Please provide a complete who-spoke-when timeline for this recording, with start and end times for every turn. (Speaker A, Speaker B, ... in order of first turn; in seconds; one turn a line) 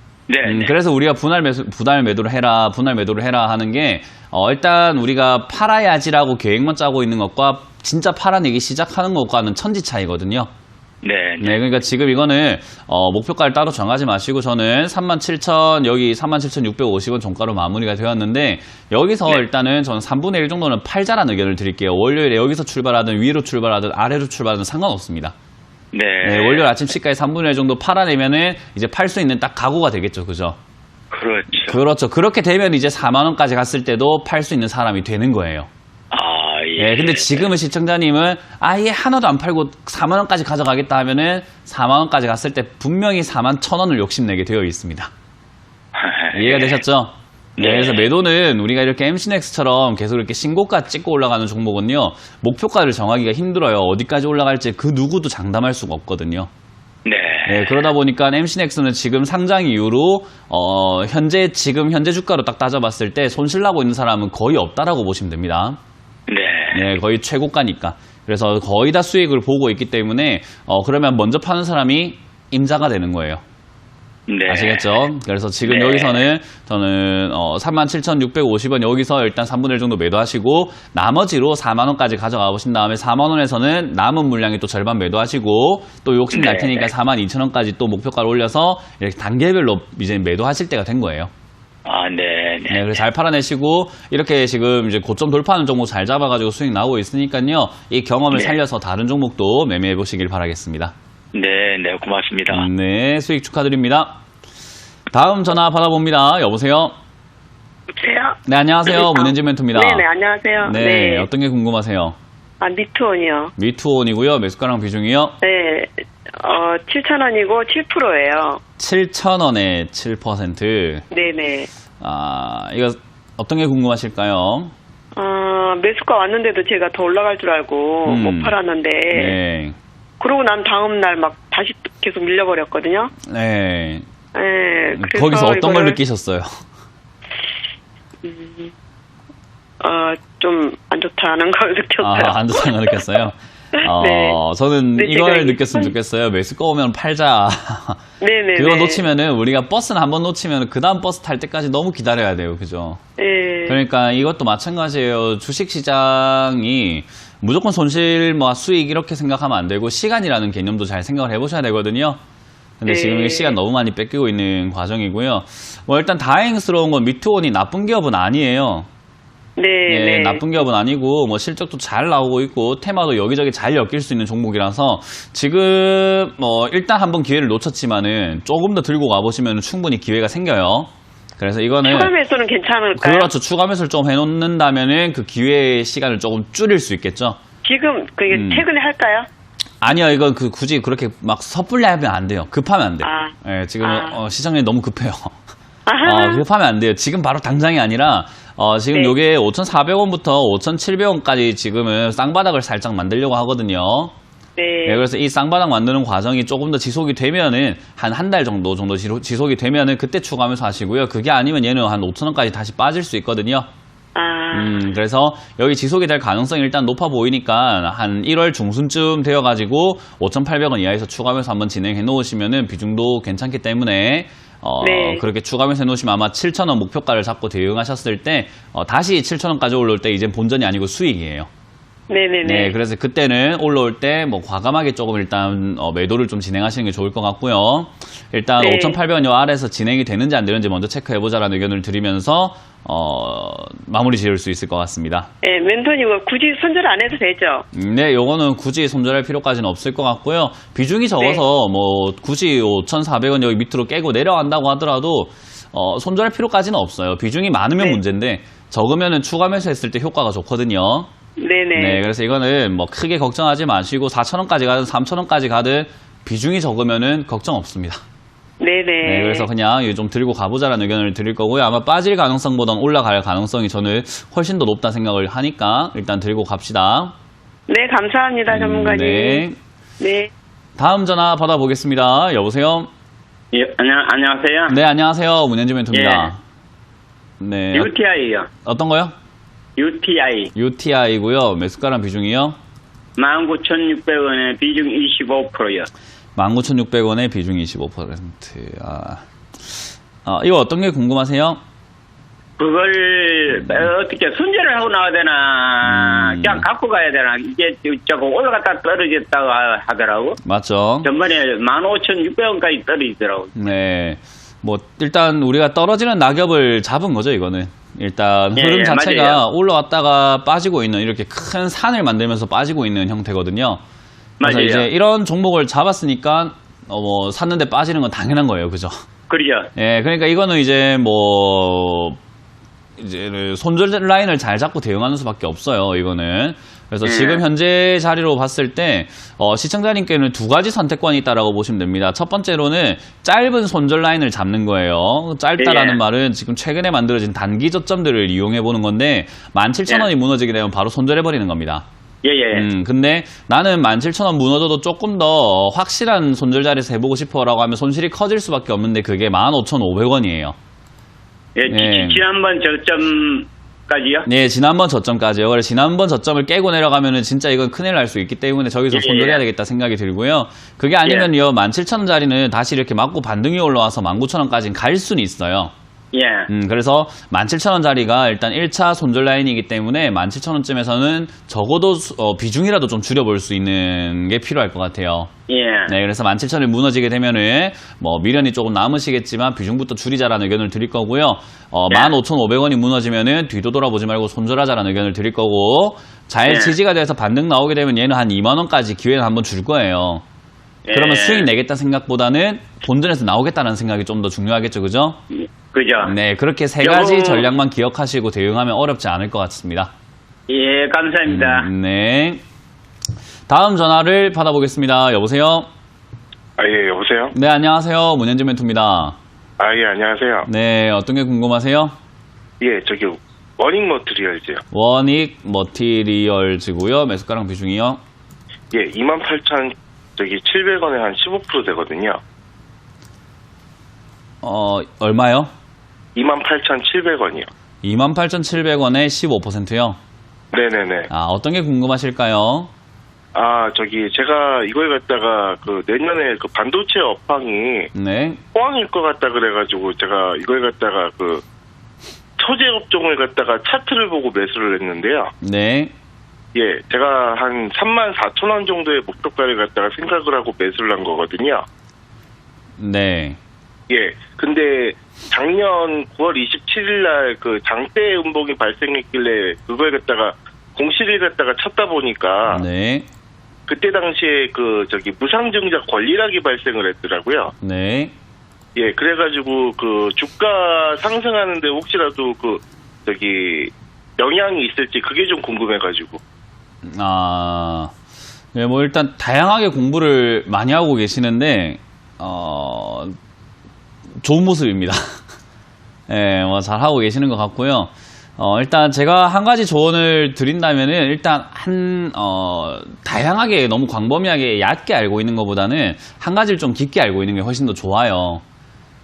Speaker A: 0.3-0.7
Speaker B: 0.4-10.5
Speaker A: 11.0-11.6
Speaker B: 11.4-25.3
Speaker A: 25.9-26.7
Speaker B: 26.2-30.6
Speaker A: 31.1-31.8
Speaker B: 31.5-35.7
Speaker A: 36.1-37.5
Speaker B: 36.8-45.1
Speaker A: 45.9-46.8
Speaker B: 46.3-56.5
Speaker A: 47.6-48.1
Speaker A: 57.0-57.9
Speaker B: 57.4-65.8
Speaker A: 66.3-66.9
Speaker B: 66.7-73.4
Speaker A: 74.3-74.9
Speaker B: 74.5-91.3
Speaker A: 75.6-76.2
Speaker A: 86.3-86.9
Speaker A: 91.8-92.9
Speaker B: 92.7-100.9
Speaker A: 98.3-98.6
Speaker A: 101.3-102.7
Speaker B: 102.5-104.2
Speaker B: 105.1-106.9
Speaker C: 107.9-111.3
Speaker B: 108.5-110.1
Speaker B: 110.6-112.2
Speaker C: 112.6-113.5
Speaker B: 113.6-115.3
Speaker C: 115.4-118.6
Speaker B: 118.8-121.0
Speaker C: 121.1-121.7
Speaker B: 122.0-124.7
Speaker C: 125.1-129.4
Speaker B: 128.0-128.5
Speaker B: 129.1-129.8
Speaker C: 130.2-133.1
Speaker B: 133.3-134.0
Speaker C: 134.3-136.0
Speaker B: 134.9-136.6
Speaker C: 138.2-138.7
Speaker C: 139.8-142.7
Speaker B: 142.0-148.0
Speaker C: 143.7-144.4
Speaker C: 145.0-145.9
Speaker C: 148.2-149.0
Speaker B: 148.6-153.0
Speaker C: 153.2-153.8
Speaker B: 153.7-162.2
Speaker B: 162.8-168.9
Speaker C: 162.9-163.5
Speaker C: 169.6-170.4
Speaker B: 169.9-182.1
Speaker C: 181.8-183.3
Speaker B: 182.9-187.4
Speaker C: 187.6-189.3
Speaker B: 188.3-188.6
Speaker B: 189.8-195.3
Speaker C: 193.0-194.2
Speaker C: 195.8-196.4
Speaker B: 196.0-204.1
Speaker C: 204.6-205.0
Speaker B: 204.8-213.7
Speaker C: 214.1-214.8
Speaker B: 214.5-231.5
Speaker C: 224.8-225.2
Speaker C: 232.1-232.7
Speaker B: 232.4-245.3
Speaker C: 238.6-239.0
Speaker C: 245.4-247.6
Speaker B: 247.7-261.1
Speaker C: 251.2-251.4
Speaker C: 261.4-262.0
Speaker B: 261.8-268.0
Speaker C: 268.6-269.5
Speaker B: 269.0-277.1
Speaker C: 277.7-279.4
Speaker B: 278.5-279.6
Speaker C: 280.0-280.3
Speaker B: 280.8-282.9
Speaker D: 283.5-284.8
Speaker B: 284.7-286.4
Speaker D: 285.9-286.3
Speaker B: 287.4-287.9
Speaker D: 287.7-288.5
Speaker B: 288.6-289.1
Speaker D: 289.8-290.5
Speaker B: 290.5-292.6
Speaker D: 293.2-295.9
Speaker B: 296.4-301.6
Speaker D: 302.6-310.4
Speaker B: 305.8-306.6
Speaker B: 310.4-311.1
Speaker D: 311.0-313.5
Speaker B: 313.5-323.8
Speaker D: 318.6-319.4
Speaker D: 324.4-324.9
Speaker B: 324.4-329.0
Speaker D: 329.3-329.7
Speaker B: 329.7-332.2
Speaker B: 333.0-351.8
Speaker D: 337.0-337.4
Speaker D: 345.6-346.0
Speaker D: 352.2-352.7
Speaker B: 352.5-360.6
Speaker D: 361.6-364.3
Speaker B: 361.7-362.2
Speaker B: 364.2-375.7
Speaker D: 368.9-369.4
Speaker D: 376.1-376.5
Speaker B: 376.5-385.3
Speaker D: 385.5-385.9
Speaker B: 385.9-400.2
Speaker D: 396.4-396.7
Speaker D: 400.8-401.5
Speaker B: 400.9-405.2
Speaker D: 405.7-406.1
Speaker B: 406.0-409.9
Speaker D: 406.8-407.5
Speaker D: 410.5-411.7
Speaker B: 411.2-412.4
Speaker B: 413.5-415.7
Speaker E: 416.6-417.3
Speaker B: 417.3-419.2
Speaker E: 419.6-420.5
Speaker B: 420.5-421.9
Speaker E: 422.6-424.6
Speaker B: 424.7-428.0
Speaker E: 428.7-432.2
Speaker B: 434.4-435.5
Speaker E: 436.1-437.5
Speaker B: 437.8-440.0
Speaker E: 440.5-441.1
Speaker B: 441.1-442.7
Speaker E: 443.3-447.9
Speaker B: 447.9-448.4
Speaker E: 448.5-451.4
Speaker E: 452.4-455.3
Speaker B: 455.4-455.9
Speaker E: 456.5-461.6
Speaker B: 462.8-463.4
Speaker E: 463.9-472.6
Speaker B: 472.5-473.1
Speaker E: 473.7-477.5
Speaker B: 477.6-478.1
Speaker E: 478.8-486.2
Speaker B: 486.8-487.9
Speaker B: 488.5-493.1
Speaker B: 494.2-495.1
Speaker B: 496.1-508.4